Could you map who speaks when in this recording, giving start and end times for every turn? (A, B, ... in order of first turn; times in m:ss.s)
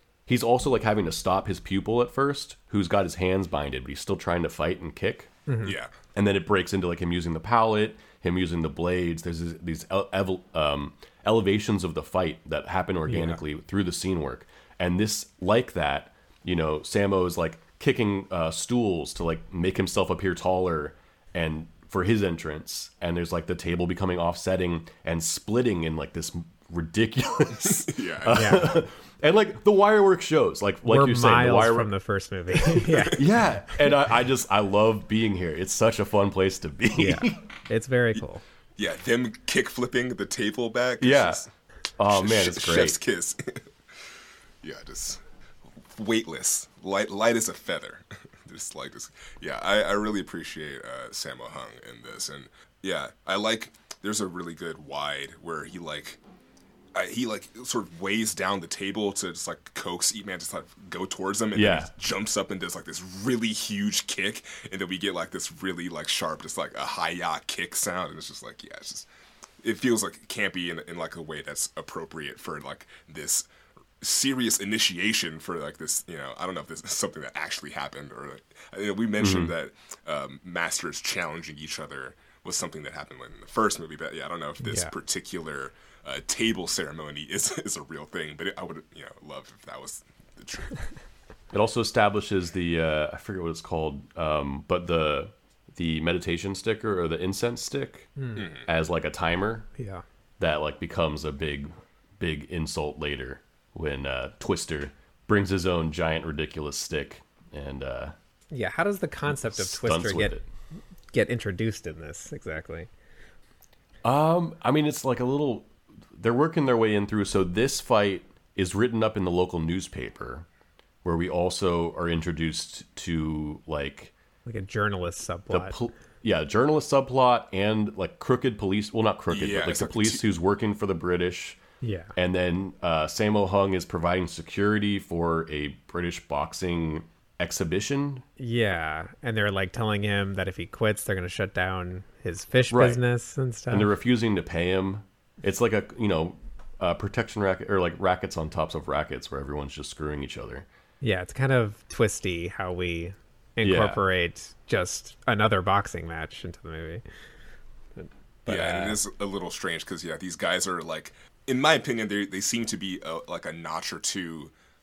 0:00.3-0:05.3 A
0:05.5-0:05.7 B
0:05.6-0:05.9 C
0:06.2-0:31.9 A
0:13.1-0:13.4 B
0:27.9-0:28.7 C
0:28.3-0:28.8 B
0:30.8-0:33.2 B
0:33.1-0:37.4 A
0:37.0-0:38.4 B
0:38.8-0:41.5 C
0:41.0-0:41.4 A
0:42.0-0:43.0 A
0:42.0-0:43.7 C
0:44.6-0:45.2 C
0:46.0-0:56.2 C
0:57.0-1:09.1 C
1:01.6-1:01.9 A
1:09.6-1:13.5 C
1:14.0-1:30.9 C
1:19.2-1:19.6 A
1:24.6-1:24.9 B
1:31.5-1:38.1 A
1:38.2-1:38.5 B
1:38.4-1:38.7 C
1:38.7-1:39.7 A
1:39.8-1:40.0 B
1:40.4-1:48.1 A
1:48.5-1:50.4 B
1:49.3-1:50.5 A
1:51.1-1:52.9 B
1:54.0-2:00.5 A
2:01.0-2:04.1 A
2:04.5-2:05.8 B
2:05.5-2:11.6 A
2:09.3-2:10.2 C
2:11.8-2:12.1 B
2:12.2-2:18.2 A
2:18.4-2:23.9 B
2:22.7-2:23.0 A
2:23.7-2:30.7 A
2:31.0-2:37.0 B
2:33.6-2:34.0 A
2:38.0-2:39.0 B
2:38.5-2:44.5 C